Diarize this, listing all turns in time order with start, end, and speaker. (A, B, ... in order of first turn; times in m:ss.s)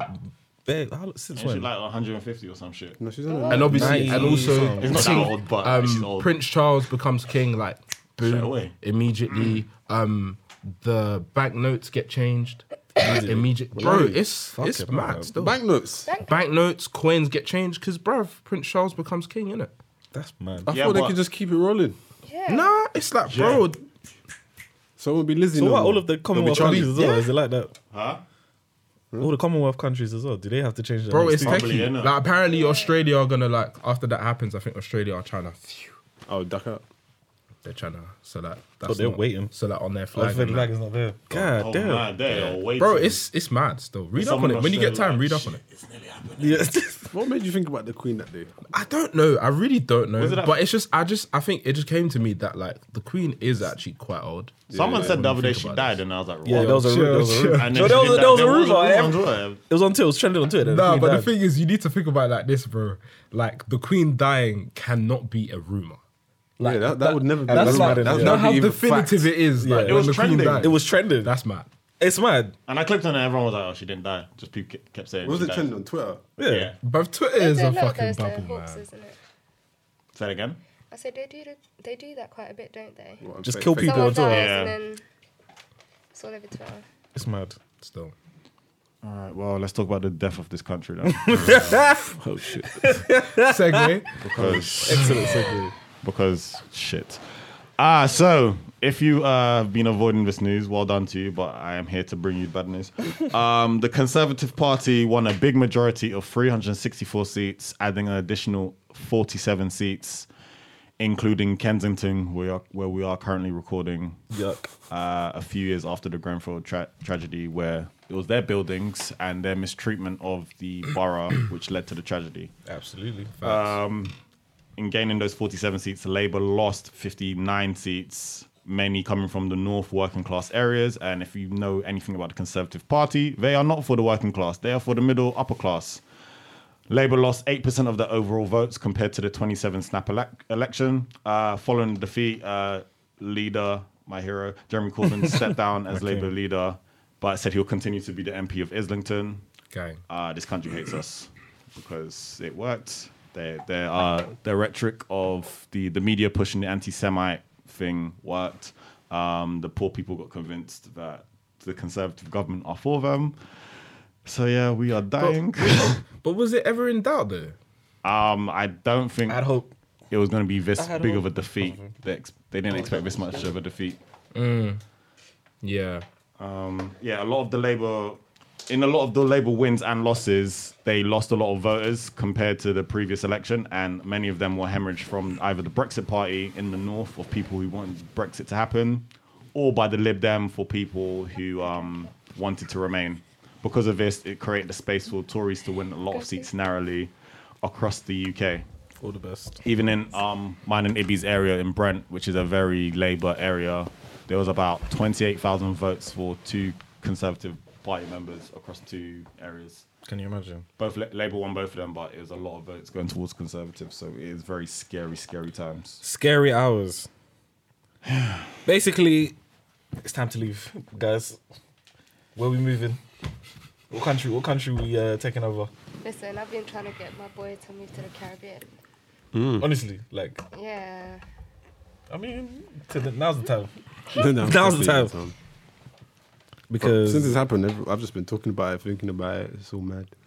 0:00.6-0:01.7 A
0:01.3-0:03.0 B
0:03.0-0:04.7 C
0:03.3-0:03.7 D
0:03.5-0:15.6 E
0:03.6-0:05.3 A
0:04.2-0:06.3 B
0:08.2-0:08.8 B
0:09.3-0:09.6 B
0:13.0-0:15.3 A
0:15.3-0:16.1 C
0:16.1-0:16.4 D
0:16.2-0:19.7 E
0:20.1-0:20.7 A
0:20.6-0:22.0 C
0:20.7-0:21.2 B
0:22.2-0:22.8 D
0:22.5-0:23.8 E
0:23.3-0:23.6 B
0:25.0-0:27.0 C
0:25.5-0:27.7 A
0:26.7-0:27.3 E
0:27.9-0:28.2 B
0:29.2-0:31.8 A
0:31.1-0:36.0 E
0:31.3-0:32.2 B
0:32.5-0:33.0 D
0:36.3-0:36.8 C
0:37.6-0:40.7 E
0:38.8-0:39.5 A
0:40.1-0:42.1 A
0:41.3-0:43.2 B
0:42.3-0:45.6 E
0:44.1-0:46.7 B
0:46.4-0:47.1 A
0:47.1-0:48.5 C
0:48.7-0:58.2 E
0:50.2-0:50.6 B
0:54.7-0:55.2 C
0:54.7-0:56.9 B
0:56.4-1:01.3 A
0:57.5-0:59.6 B
1:00.6-1:06.0 E
1:06.6-1:11.7 E
1:06.6-1:09.3 C
1:07.5-1:08.5 A
1:09.6-1:11.3 A
1:09.8-1:10.8 B
1:12.0-1:12.5 A
1:12.7-1:15.7 B
1:15.2-1:16.2 C
1:16.4-1:16.7 A
1:16.4-1:16.8 B
1:16.8-1:18.8 E
1:17.4-1:19.2 D
1:20.1-1:20.6 B
1:20.9-1:23.2 D
1:23.2-1:24.2 C
1:23.4-1:24.5 A
1:23.8-1:25.0 D
1:24.2-1:24.8 B
1:26.1-1:26.8 D
1:27.1-1:27.6 A
1:27.8-1:28.1 E
1:29.0-1:31.8 B
1:31.1-1:33.9 A
1:32.1-1:33.0 C
1:33.4-1:35.4 E
1:34.2-1:35.3 B
1:34.7-1:35.7 A
1:36.0-1:50.3 B
1:51.0-1:54.2 B
1:54.3-1:54.7 A
1:54.9-2:02.5 B
2:02.6-2:03.3 A
2:03.4-2:03.8 E
2:03.4-2:04.2 B
2:04.8-2:16.0 B
2:16.9-2:29.4 B
2:29.7-2:30.0 E
2:30.1-2:46.0 B
2:45.2-2:47.6 E
2:48.0-2:49.5 B
2:49.3-2:49.7 A
2:50.1-2:54.0 B
2:50.8-2:51.9 A
2:52.7-2:53.5 A
2:54.3-2:54.8 E
2:55.6-2:56.0 E
2:56.4-3:18.6 B
3:16.1-3:16.5 D
3:19.0-3:19.6 A
3:19.6-3:29.8 B
3:30.0-3:30.6 A
3:30.8-3:36.0 B
3:36.0-3:37.1 A
3:38.1-3:38.4 B
3:38.6-3:39.4 A
3:40.0-3:41.4 A
3:42.3-3:43.0 A
3:43.9-3:45.7 A
3:46.0-3:48.7 D
3:49.3-3:49.7 C
3:49.6-3:50.4 A
3:50.5-3:51.2 D
3:52.1-3:55.1 A
3:54.1-3:55.3 C
3:56.7-3:57.4 A
3:56.8-4:00.1 C